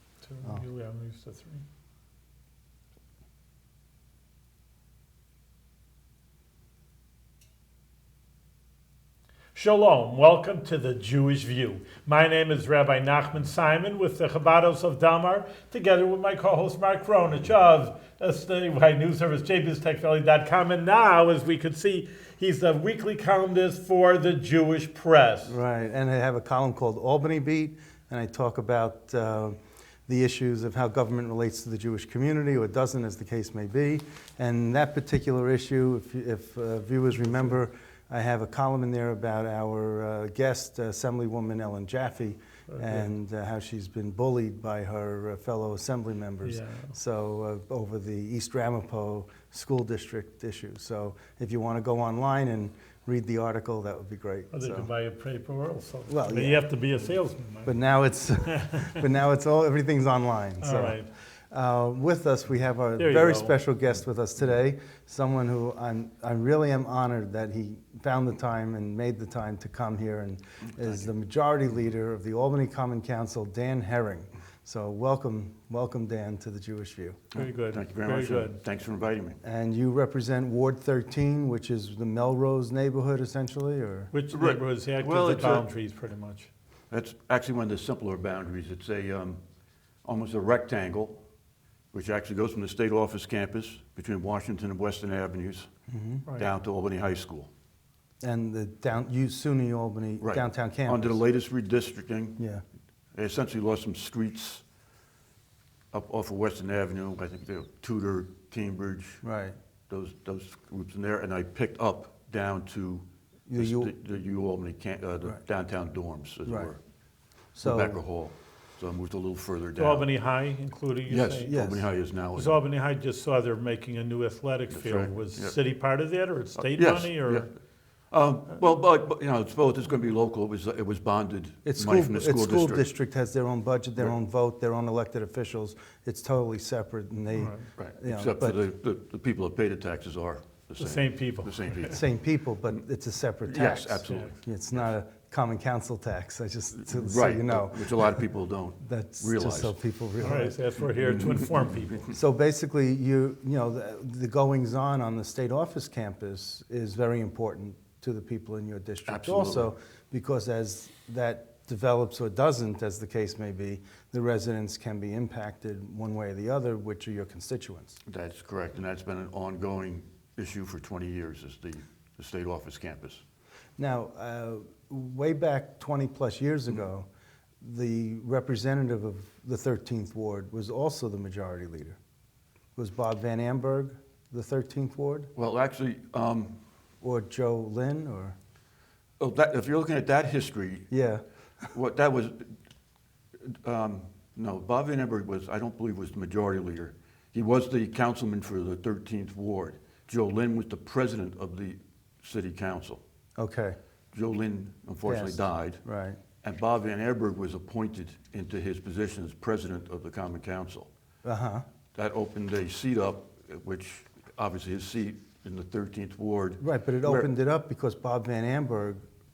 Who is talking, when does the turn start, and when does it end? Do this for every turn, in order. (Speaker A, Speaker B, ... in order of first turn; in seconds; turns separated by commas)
Speaker A: 0.2-1.6, Speaker A: 9.5-25.6, Speaker B: 25.5-29.6, Speaker B: 30.1-54.9, Speaker A: 37.2-37.5, Speaker A: 42.7-43.1, Speaker A: 46.4-46.9, Speaker A: 54.5-57.8, Speaker B: 56.1-56.7, Speaker B: 57.6-77.2, Speaker A: 58.5-59.0, Speaker A: 60.6-61.1, Speaker A: 63.0-63.6, Speaker A: 77.3-78.6, Speaker C: 77.4-79.4, Speaker B: 79.4-84.1, Speaker A: 84.1-86.5, Speaker C: 84.3-85.7, Speaker C: 86.9-89.4, Speaker C: 90.0-91.2, Speaker C: 91.9-95.7, Speaker B: 95.9-96.3, Speaker C: 96.4-97.5, Speaker B: 98.2-101.2, Speaker C: 100.2-102.4, Speaker B: 102.4-102.6, Speaker C: 103.1-104.6, Speaker C: 105.9-109.2, Speaker B: 109.2-109.5, Speaker C: 109.9-116.8, Speaker B: 113.5-113.9, Speaker B: 116.5-116.7, Speaker B: 117.5-118.0, Speaker C: 117.6-120.1, Speaker A: 119.8-121.6, Speaker C: 121.1-122.6, Speaker B: 121.4-121.9, Speaker A: 122.4-127.5, Speaker C: 124.7-125.6, Speaker C: 126.6-127.5, Speaker C: 128.1-132.9, Speaker B: 131.7-138.6, Speaker A: 137.3-137.7, Speaker C: 137.8-142.1, Speaker A: 140.8-141.9, Speaker B: 141.9-148.2, Speaker C: 143.5-144.9, Speaker C: 146.8-149.8, Speaker B: 148.8-150.6, Speaker A: 150.2-152.1, Speaker C: 151.0-151.6, Speaker B: 152.1-168.0, Speaker C: 159.1-159.7, Speaker C: 168.1-173.2, Speaker B: 173.8-177.1, Speaker B: 177.6-182.0, Speaker B: 182.8-185.3, Speaker C: 185.4-186.5, Speaker B: 187.0-188.4, Speaker C: 189.2-190.9, Speaker B: 190.9-191.2, Speaker C: 191.7-192.5, Speaker C: 193.5-203.0, Speaker B: 203.4-203.8, Speaker C: 204.1-205.8, Speaker B: 205.0-206.2, Speaker C: 206.4-210.9, Speaker B: 211.2-211.7, Speaker C: 211.9-217.3, Speaker B: 216.6-219.0